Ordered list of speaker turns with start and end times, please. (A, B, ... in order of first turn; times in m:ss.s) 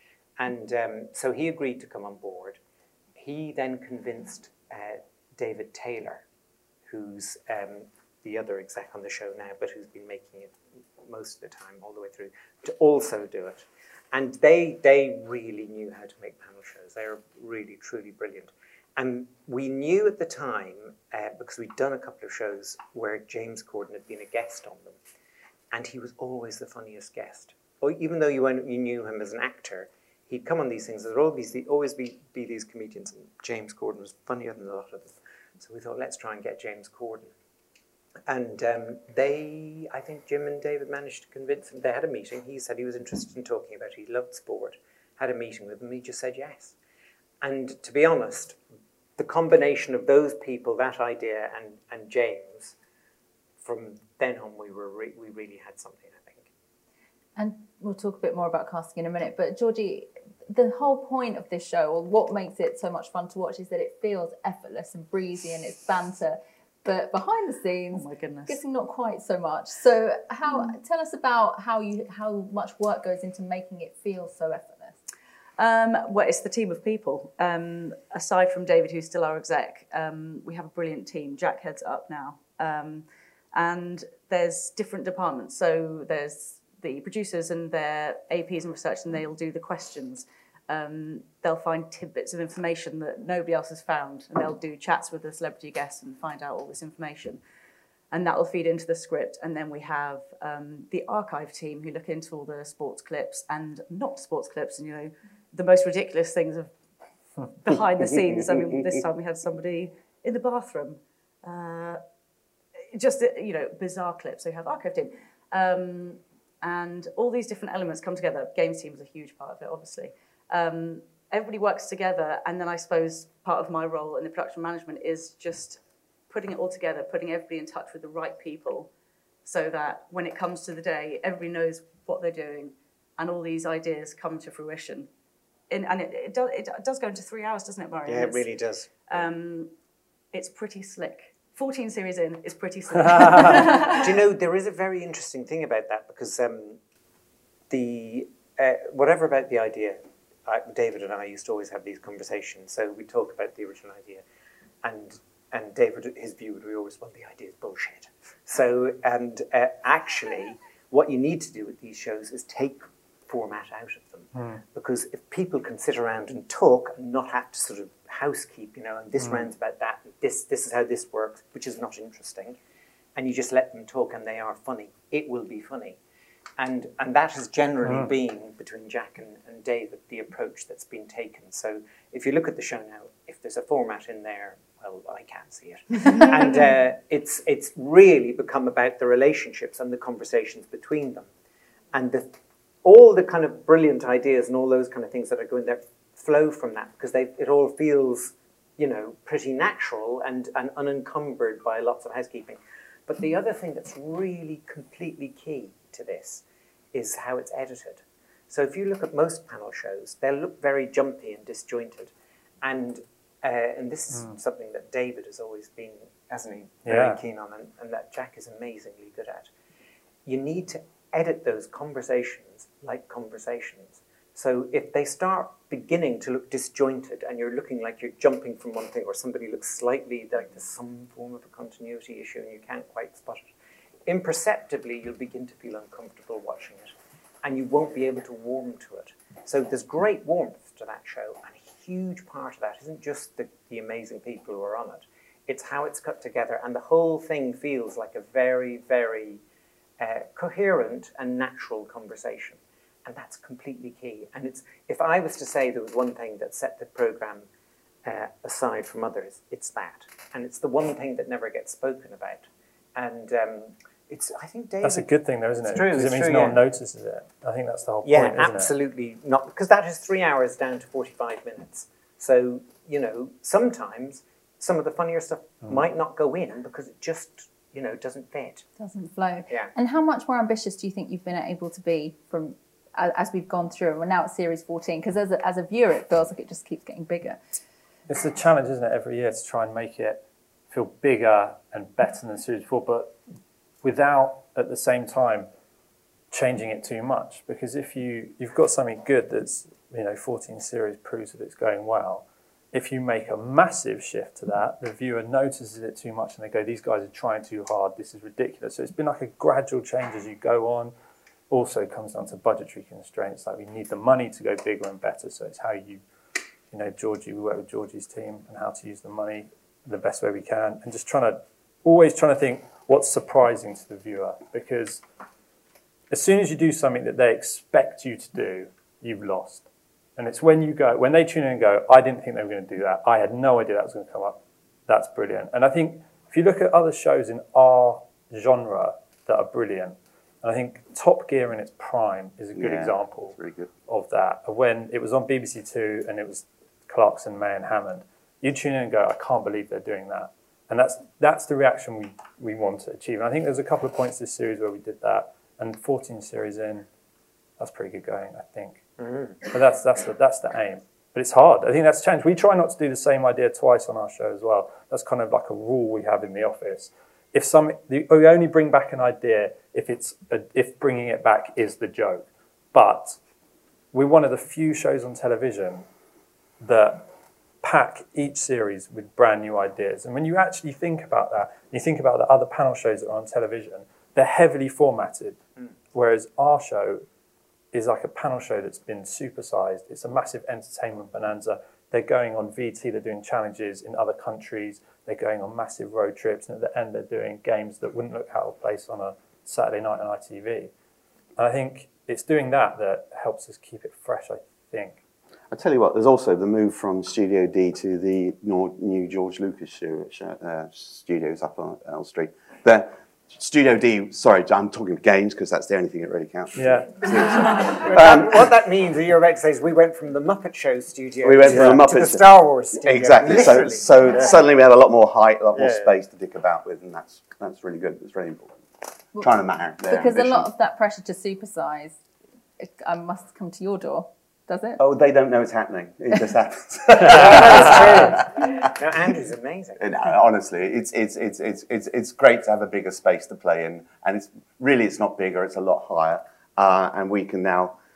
0:00.4-0:02.6 A
0:03.2-0:06.2 A
0:06.9-0:25.0 A
0:25.7-0:37.3 A
0:38.3-0:46.8 A
0:47.4-0:48.6 A
0:49.2-0:52.8 A
0:53.6-0:56.5 A
0:57.4-1:14.9 B
1:07.9-1:08.6 C
1:15.6-1:37.4 C
1:38.1-1:46.7 C
1:47.6-1:52.0 C
1:52.9-2:08.9 C
2:09.4-2:15.1 C
2:15.7-2:18.5 C
2:18.1-2:19.1 A
2:19.1-2:19.7 C
2:20.3-2:24.2 C
2:23.1-2:23.7 D
2:23.8-2:26.8 A
2:27.7-2:34.2 A
2:34.8-2:52.6 A
2:44.4-2:44.6 D
2:49.2-2:49.5 D
2:53.2-2:56.0 A
2:56.6-3:11.3 A
2:57.8-2:58.1 D
3:11.9-3:39.5 A
3:36.9-3:37.2 D
3:40.2-3:53.5 A
3:54.1-4:09.4 A
4:10.0-4:17.5 A
4:18.0-4:26.6 A
4:24.8-4:28.7 D
4:28.0-4:38.6 A
4:38.8-4:47.4 B
4:48.1-4:53.1 D
4:53.8-4:55.5 D
4:56.3-5:10.9 D
5:11.5-5:16.0 D
5:16.7-5:25.0 D
5:26.1-5:29.6 D
5:30.2-5:56.9 D
5:42.6-5:43.7 E
5:57.6-5:58.8 D
5:59.0-5:59.4 A
5:59.4-6:13.2 D
6:13.9-6:15.9 D
6:16.6-6:17.1 D
6:17.6-6:25.4 D
6:25.9-6:27.0 D
6:27.7-6:40.7 D
6:41.4-6:45.0 D
6:45.5-6:58.5 E
6:56.6-6:57.3 D
6:57.7-7:04.2 A
7:01.2-7:08.6 E
7:05.6-7:05.8 A
7:09.1-7:10.5 E
7:09.1-7:12.0 B
7:12.6-7:14.8 B
7:14.8-7:18.7 E
7:17.0-7:19.8 A
7:17.1-7:18.1 D
7:19.8-7:27.8 E